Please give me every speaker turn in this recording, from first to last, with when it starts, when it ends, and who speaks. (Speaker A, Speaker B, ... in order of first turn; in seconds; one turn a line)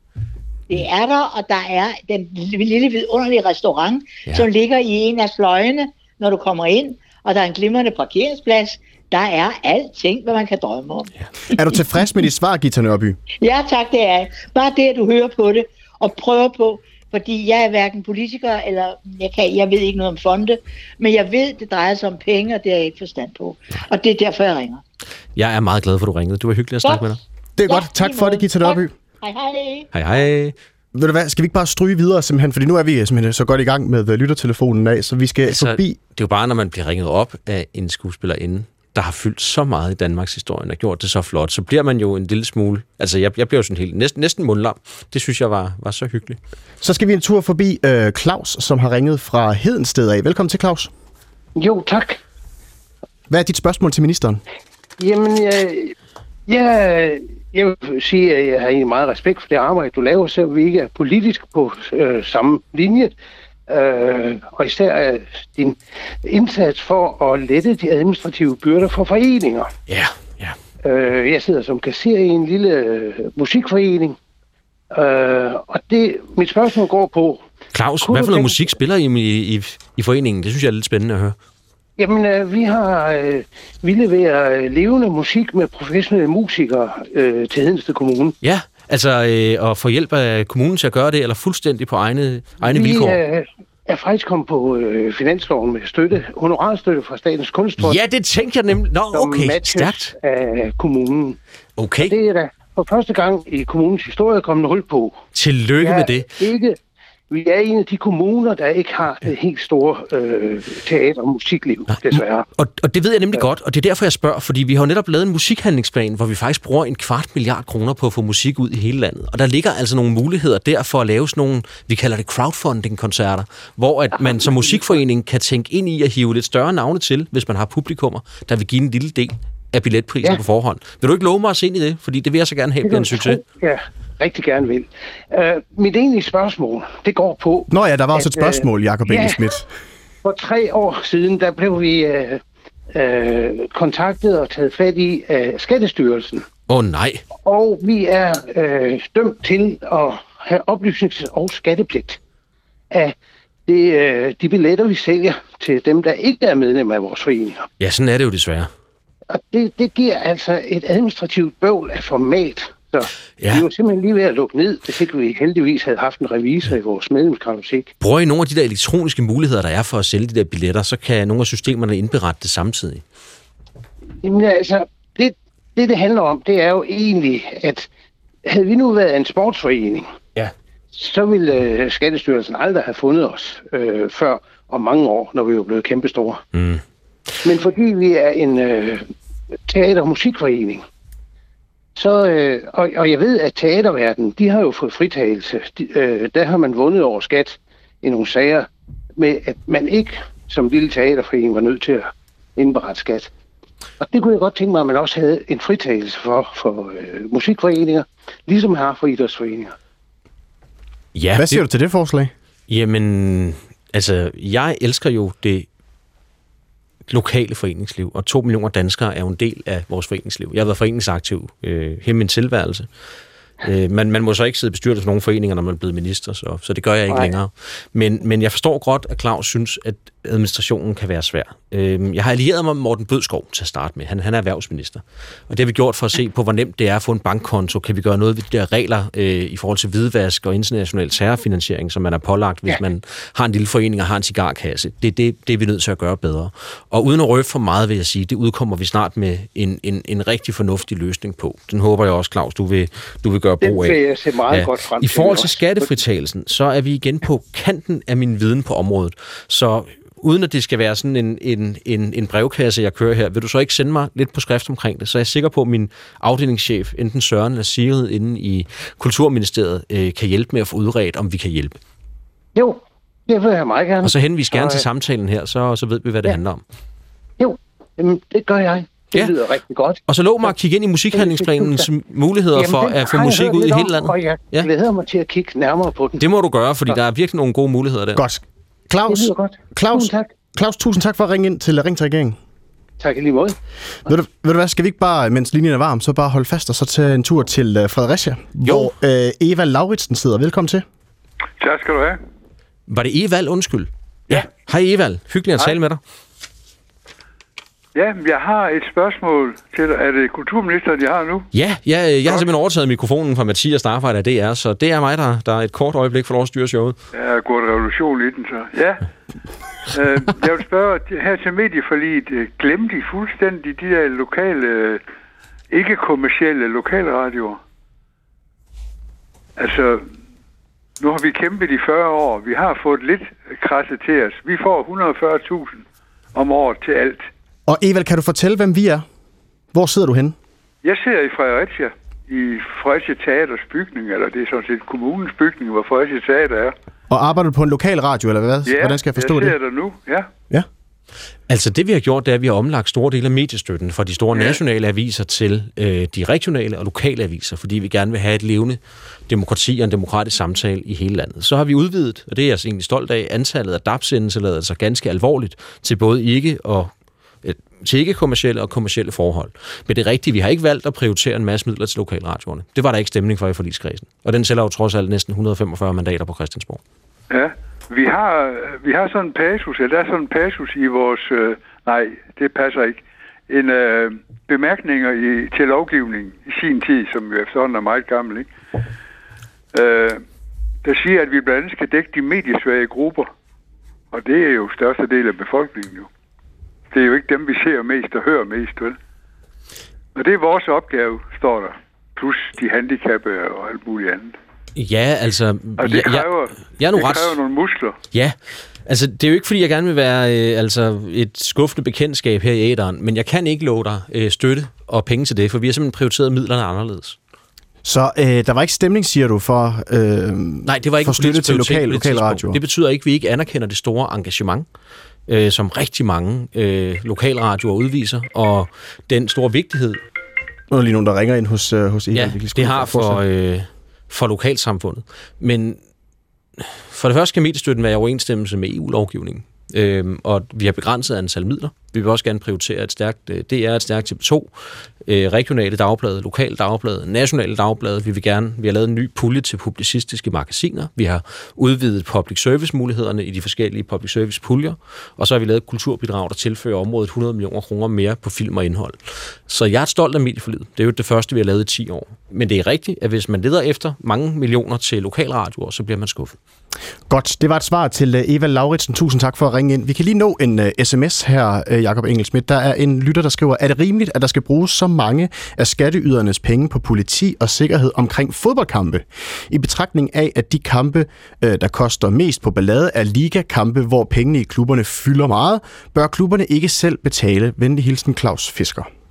Speaker A: 0.7-11.1
Speaker B: 11.5-13.2
Speaker A: 13.3-24.8
Speaker C: 25.4-27.2
Speaker A: 26.8-29.9
Speaker B: 27.6-28.9
Speaker C: 29.9-30.6
Speaker B: 30.9-36.0
Speaker C: 35.5-46.4
Speaker B: 46.8-50.9
Speaker D: 51.5-52.2
Speaker B: 53.3-54.4
Speaker D: 55.0-55.9
Speaker D: 56.5-63.1
Speaker D: 63.7-69.7
Speaker C: 69.9-70.5
Speaker D: 70.8-74.2
Speaker D: 74.9-77.4
Speaker C: 77.7-81.4
Speaker D: 78.0-78.7
Speaker D: 82.0-88.3
Speaker C: 88.4-93.2
Speaker D: 92.6-98.0
Speaker C: 97.8-100.1
Speaker D: 99.1-101.4
Speaker C: 101.8-102.1
Speaker D: 102.0-105.2
Speaker C: 105.3-106.3
Speaker D: 105.8-106.8
Speaker D: 107.3-112.5
Speaker C: 111.9-133.4
Speaker D: 124.2-124.8
Speaker D: 132.8-139.4
Speaker B: 137.7-139.7
Speaker D: 140.2-146.5
Speaker C: 146.7-147.2
Speaker D: 147.4-152.2
Speaker D: 153.7-157.7
Speaker C: 157.8-158.7
Speaker D: 159.3-167.9
Speaker C: 163.4-163.7
Speaker C: 168.0-173.0
Speaker D: 174.2-177.9
Speaker D: 178.4-180.1
Speaker D: 180.9-186.4
Speaker C: 186.5-186.8
Speaker D: 187.4-189.1
Speaker D: 189.7-190.8
Speaker D: 191.9-203.3
Speaker D: 204.0-209.7
Speaker C: 211.1-211.6
Speaker B: 211.3-212.3
Speaker C: 212.7-215.7
Speaker C: 217.1-222.9
Speaker C: 223.6-271.8
Speaker D: 227.1-227.3
Speaker D: 253.6-255.9
Speaker D: 272.6-274.9
Speaker C: 274.0-276.6
Speaker D: 277.4-280.5
Speaker C: 280.1-284.7
Speaker D: 281.1-281.9
Speaker D: 282.5-286.2
Speaker C: 286.2-288.2
Speaker B: 288.1-292.4
Speaker D: 289.0-290.3
Speaker D: 293.0-293.6
Speaker B: 294.1-300.8
Speaker C: 298.6-298.9
Speaker E: 301.6-302.2
Speaker C: 302.9-306.0
Speaker E: 307.9-311.5
Speaker C: 311.5-317.0
Speaker E: 317.1-319.1
Speaker E: 319.9-325.0
Speaker E: 325.7-327.6
Speaker E: 329.6-330.1
Speaker E: 331.0-335.8
Speaker E: 336.3-337.3
Speaker B: 337.7-339.1
Speaker B: 339.7-340.4
Speaker E: 340.8-346.7
Speaker B: 347.1-349.6
Speaker E: 348.6-350.3
Speaker C: 351.5-366.9
Speaker E: 354.3-354.6
Speaker C: 367.4-376.8
Speaker E: 377.3-388.5
Speaker E: 389.7-390.2
Speaker E: 390.8-393.3
Speaker E: 394.1-396.1
Speaker E: 396.9-399.0
Speaker E: 400.1-404.4
Speaker C: 404.8-407.4
Speaker E: 405.8-407.9
Speaker C: 408.1-417.2
Speaker B: 417.8-422.6
Speaker C: 420.6-424.7
Speaker C: 425.3-430.0
Speaker B: 430.7-433.2
Speaker C: 432.1-435.8
Speaker C: 436.6-444.5
Speaker C: 445.0-466.4
Speaker B: 467.1-488.9